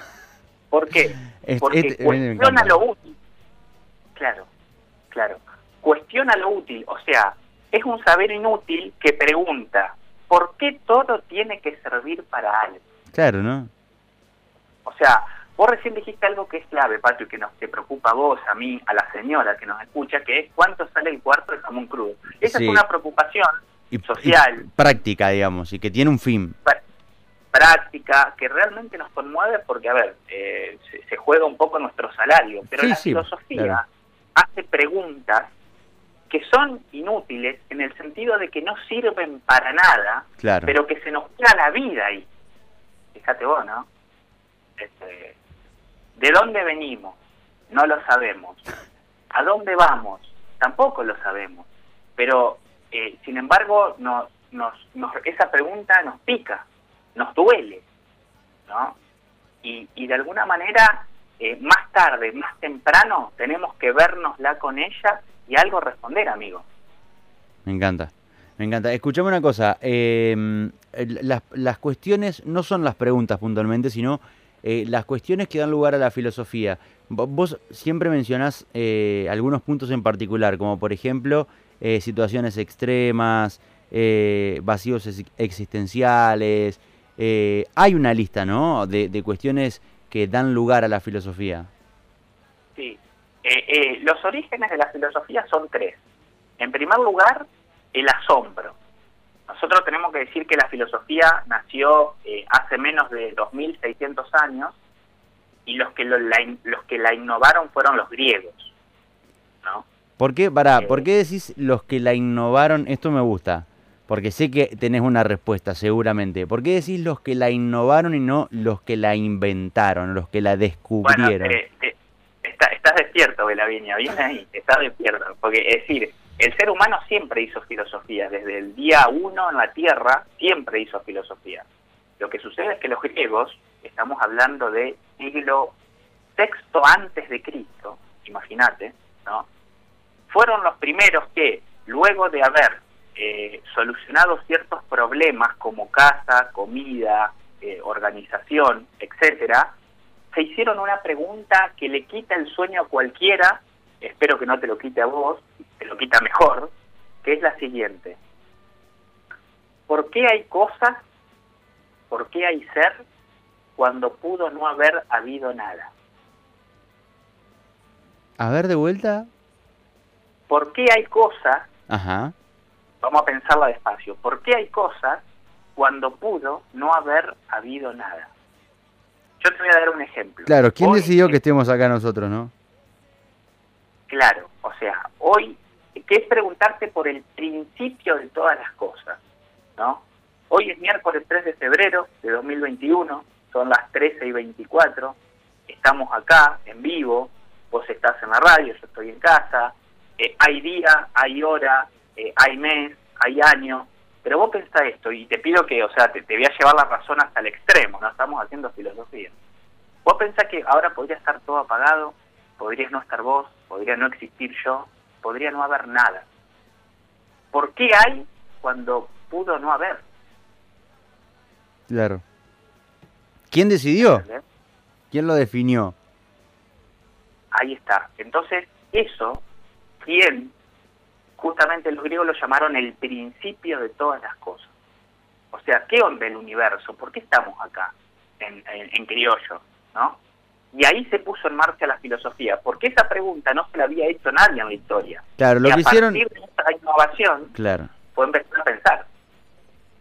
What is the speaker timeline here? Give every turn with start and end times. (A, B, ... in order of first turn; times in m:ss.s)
0:00.7-0:03.2 A
0:01.4-0:02.8 B
0:04.2-0:04.5 A
0:05.1-0:12.8 A
0:13.1-0:13.7 B
0:14.8-0:24.7 A
0:22.4-0:22.8 B
0:23.9-0:26.6 B
0:27.5-0:33.8 A
0:32.7-0:33.8 B
0:34.4-0:35.5 A
0:36.3-0:42.3 A
0:40.4-0:40.7 B
0:43.2-0:43.9 A
0:44.8-0:45.4 A
0:46.2-0:47.2 A
0:47.7-0:48.6 A
0:49.3-0:51.7 A
0:52.2-0:57.8 A
0:58.7-0:59.0 A
0:59.6-1:06.6 A
1:07.7-1:31.7 B
1:32.8-1:36.0 A
1:36.6-1:38.8 A
1:39.5-1:44.7 A
1:45.7-1:48.7 A
1:50.2-2:01.6 B
1:50.8-1:51.1 A
2:01.0-2:11.7 A
2:12.2-2:15.7 A
2:16.4-2:19.5 A
2:20.3-2:29.7 A
2:30.3-2:36.7 A
2:37.2-2:38.2 A
2:39.9-2:41.0 A
2:42.1-2:43.0 A
2:43.8-2:45.9 A
2:48.4-2:49.3 B
2:50.5-2:51.7 A
2:51.9-2:52.3 B
2:53.0-2:55.2 A
2:55.8-2:58.3 A
2:59.4-3:01.4 A
3:00.5-3:02.5 B
3:04.1-3:09.2 A
3:09.8-3:15.2 A
3:15.7-3:29.3 A
3:30.0-3:36.2 A
3:37.5-3:40.0 A
3:41.9-3:42.2 B
3:43.5-3:44.2 B
3:44.0-3:44.4 A
3:45.1-3:46.0 B
3:47.5-3:49.4 A
3:50.0-3:50.5 A
3:51.4-3:54.7 A
3:55.5-4:00.2 A
4:00.7-4:07.5 A
4:05.4-4:06.2 B
4:07.6-4:07.9 B
4:08.1-4:09.0 A